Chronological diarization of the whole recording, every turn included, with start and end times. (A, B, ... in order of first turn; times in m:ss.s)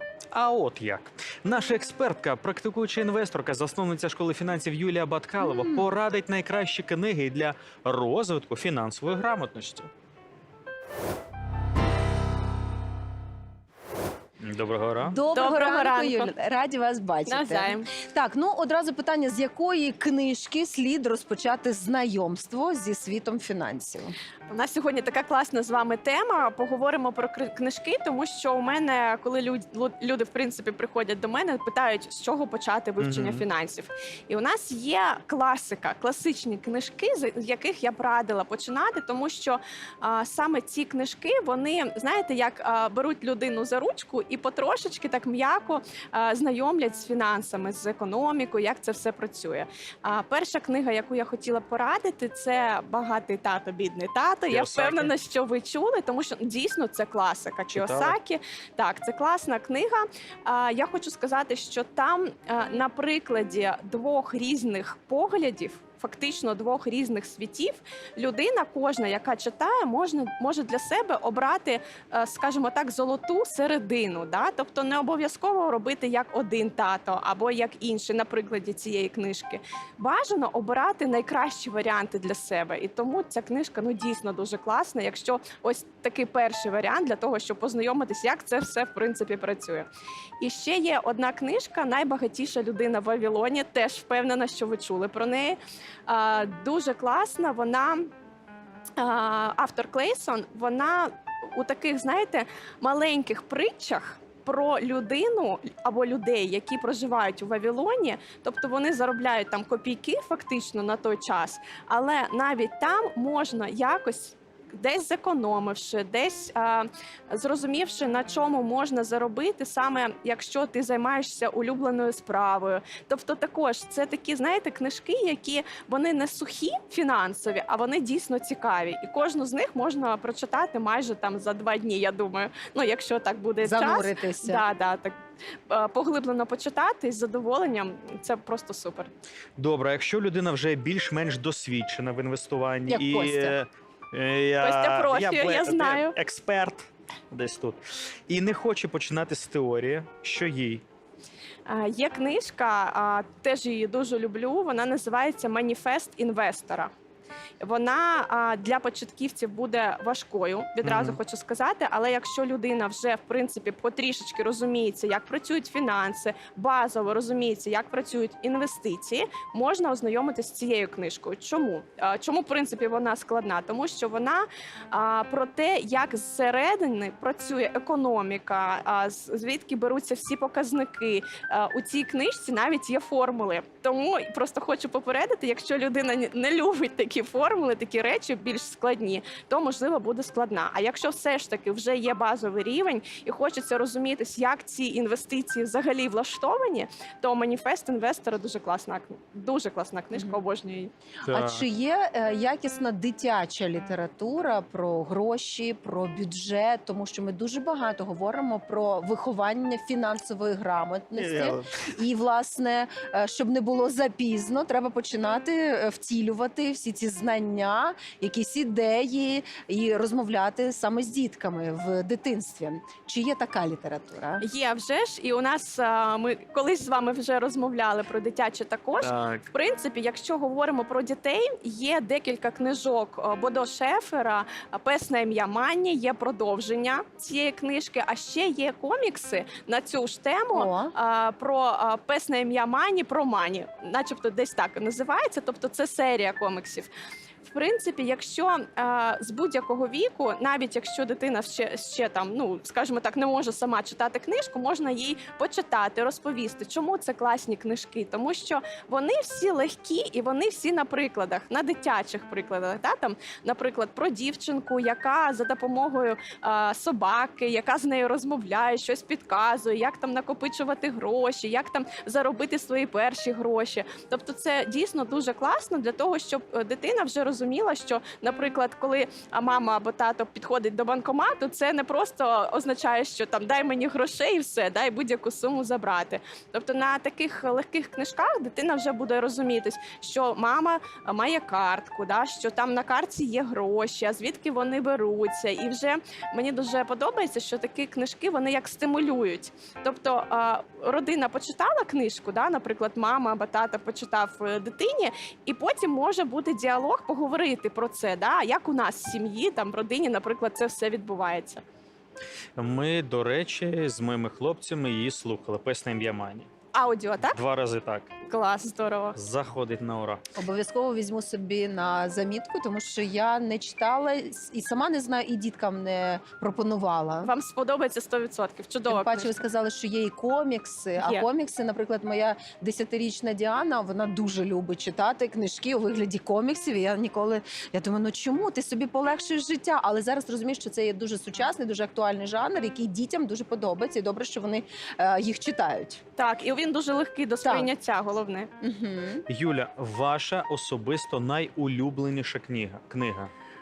0:00.3-0:09.9 A
0:05.4-0:05.9 B
0:14.4-0:15.2 A
0:15.0-0:24.1 B
0:15.3-0:16.3 C
0:17.2-0:17.9 C
0:24.5-1:29.9 C
0:33.0-0:33.4 A
0:54.5-0:55.1 A
0:57.7-0:58.2 A
1:30.4-1:38.1 C
1:39.0-2:15.1 C
2:13.6-2:14.6 B
2:15.7-2:19.1 C
2:19.6-2:30.8 A
2:22.9-2:23.6 B
2:24.6-2:26.1 C
2:31.7-2:36.9 C
2:37.6-3:20.9 C
2:40.8-2:41.2 A
3:20.1-3:20.4 B
3:21.2-3:44.4 B
3:21.2-3:21.6 A
3:31.1-3:31.9 A
3:44.4-4:06.9 C
3:49.0-3:49.4 A
4:00.5-4:00.9 B
4:07.4-5:11.6 C
5:12.6-5:16.5 A
5:16.7-5:17.4 C
5:17.3-5:18.1 A
5:18.2-5:19.2 C
5:19.1-5:20.2 A
5:20.4-5:27.3 B
5:27.2-5:29.4 C
5:28.9-5:46.0 B
5:31.0-5:31.3 C
5:46.2-5:48.5 C
5:47.4-5:47.7 B
5:48.6-5:49.2 B
5:49.3-5:53.3 A